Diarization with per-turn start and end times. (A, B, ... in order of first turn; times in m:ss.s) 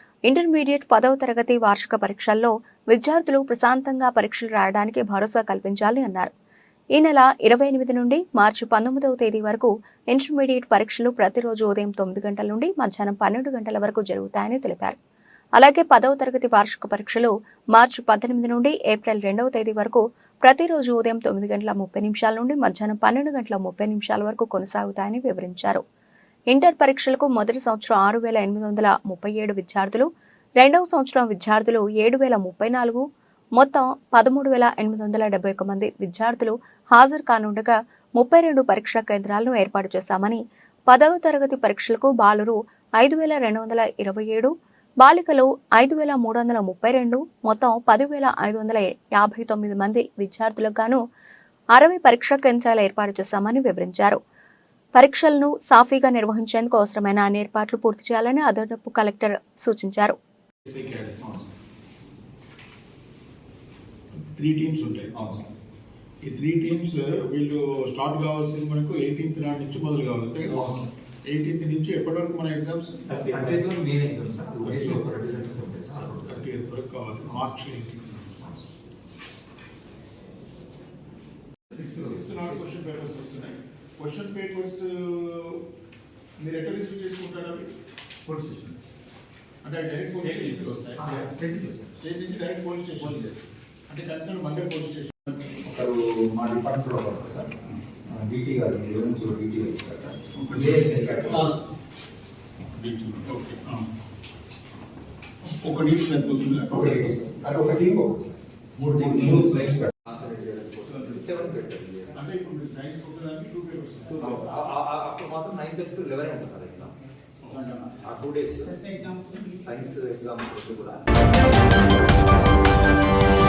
0:00.3-0:06.3 A
0:06.9-0:15.0 A
0:15.6-0:25.8 A
0:26.5-0:30.1 A
0:30.6-0:33.0 A
0:33.6-0:51.0 A
0:51.7-0:54.2 A
0:54.9-1:00.2 A
1:00.6-1:01.2 B
1:01.2-1:01.5 C
1:04.2-1:05.1 B
1:05.2-1:05.5 C
1:06.2-1:13.0 B
1:10.5-1:10.9 C
1:13.0-1:16.5 C
1:14.6-1:15.1 B
1:16.1-1:18.3 B
1:21.7-1:25.6 B
1:26.4-1:27.7 B
1:28.2-1:28.8 C
1:29.6-1:31.3 B
1:30.2-1:32.0 C
1:32.0-1:35.6 B
1:33.0-1:33.4 C
1:35.6-1:41.6 C
1:40.4-1:41.5 B
1:42.7-1:43.9 B
1:45.4-1:47.1 B
1:46.7-1:52.2 C
1:48.8-1:49.7 B
1:52.1-1:54.4 B
1:54.1-1:57.0 C
1:57.4-1:57.8 B
1:57.5-2:01.9 C